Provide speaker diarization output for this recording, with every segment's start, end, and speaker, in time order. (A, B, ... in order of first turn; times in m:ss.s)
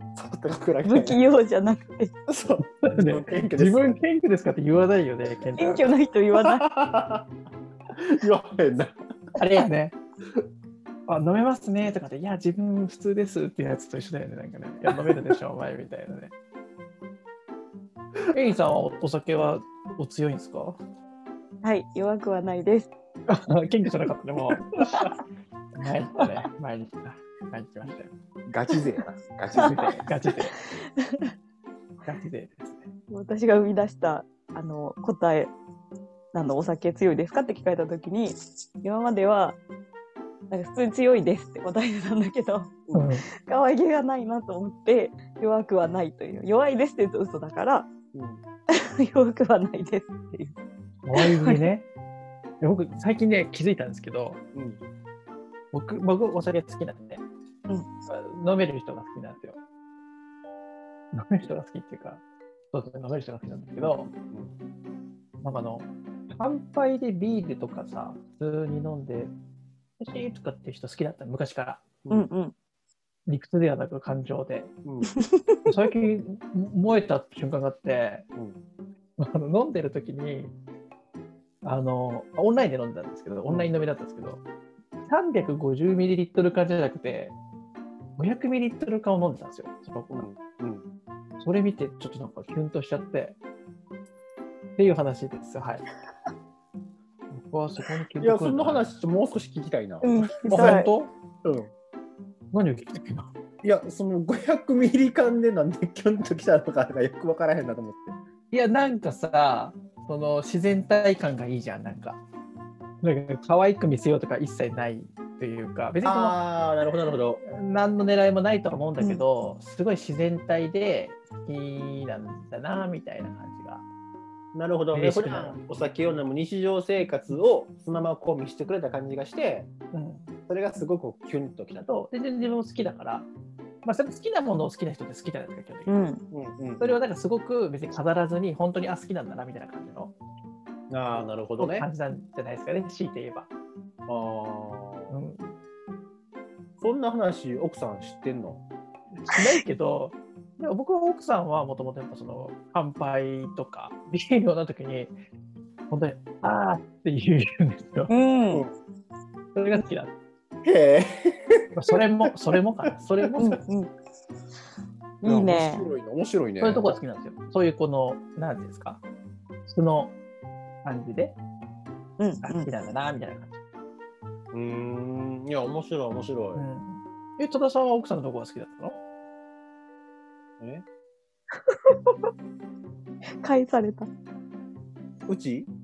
0:00.2-0:01.2 A
0:00.8-0:02.1 B
0:02.3-0:04.0 A
0:02.8-0:05.9 C
0:05.6-0:06.7 B
0:06.3-0:07.3 A
0:07.9-0:09.0 A
0:09.4-0:10.0 C
0:11.1-0:16.3 C
0:14.9-0:15.3 A
0:18.3-0:20.8 C
0:21.6-0:22.9 B
0:23.3-0:24.9 C
0:25.8-0:28.1 C
0:28.5-0:30.0 A
0:29.5-0:29.8 B
0:29.6-0:30.6 C
0:30.3-0:31.3 B
0:32.0-0:32.9 C
0:33.1-0:35.5 B
0:36.3-0:39.6 B
0:40.5-0:42.8 B
0:42.9-0:43.1 A
0:42.9-0:43.2 C
0:43.4-0:47.9 B
0:48.1-0:48.4 A
0:48.7-0:50.6 B
0:51.0-0:51.9 C
0:51.1-0:51.7 B
0:52.6-0:54.4 C
0:54.5-0:54.8 A
0:55.7-0:57.2 C
0:58.1-0:59.6 C
1:01.1-1:04.1 C
1:03.8-1:04.5 A
1:05.4-1:09.3 C
1:10.0-1:11.8 C
1:12.1-1:12.5 B
1:13.3-1:14.7 C
1:14.8-1:15.1 A
1:15.1-1:15.7 B
1:15.6-1:18.2 C
1:19.2-1:20.5 C
1:21.6-1:24.4 C
1:25.0-1:27.4 C
1:28.2-1:30.3 C
1:30.1-1:30.9 A
1:31.4-1:33.4 C
1:34.8-1:35.8 C
1:37.3-1:38.9 C
1:38.2-1:40.8 A
1:40.0-1:40.9 B
1:40.5-1:41.1 C
1:41.4-1:41.7 A
1:42.5-1:43.3 C
1:43.6-1:48.2 A
1:48.5-1:52.2 C
1:53.0-1:56.4 C
1:56.0-1:57.4 A
1:57.4-2:03.8 C
2:04.5-2:09.7 A
2:04.9-2:05.6 C
2:09.9-2:10.3 C
2:10.5-2:11.9 A
2:11.8-2:13.3 C
2:13.8-2:15.9 C
2:15.9-2:16.2 B
2:16.3-2:17.0 A
2:16.8-2:20.1 C
2:20.9-2:21.9 A
2:21.6-2:23.5 C
2:24.1-2:25.2 A
2:25.1-2:25.6 C
2:26.8-2:28.6 A
2:29.2-2:35.1 C
2:35.9-2:38.1 C
2:38.1-2:38.6 B
2:39.5-2:40.1 C
2:40.6-2:41.6 A
2:41.7-2:43.6 C
2:43.4-2:43.9 B
2:45.2-2:45.9 B
2:45.2-2:46.9 A
2:46.6-2:49.0 C
2:49.7-2:50.2 C
2:50.8-2:51.4 C
2:52.2-2:52.7 B
2:52.4-2:53.6 C
2:54.5-2:56.6 A
2:56.5-2:59.0 C
3:00.6-3:00.8 A
3:01.7-3:02.2 B
3:03.4-3:04.1 B
3:05.3-3:05.7 A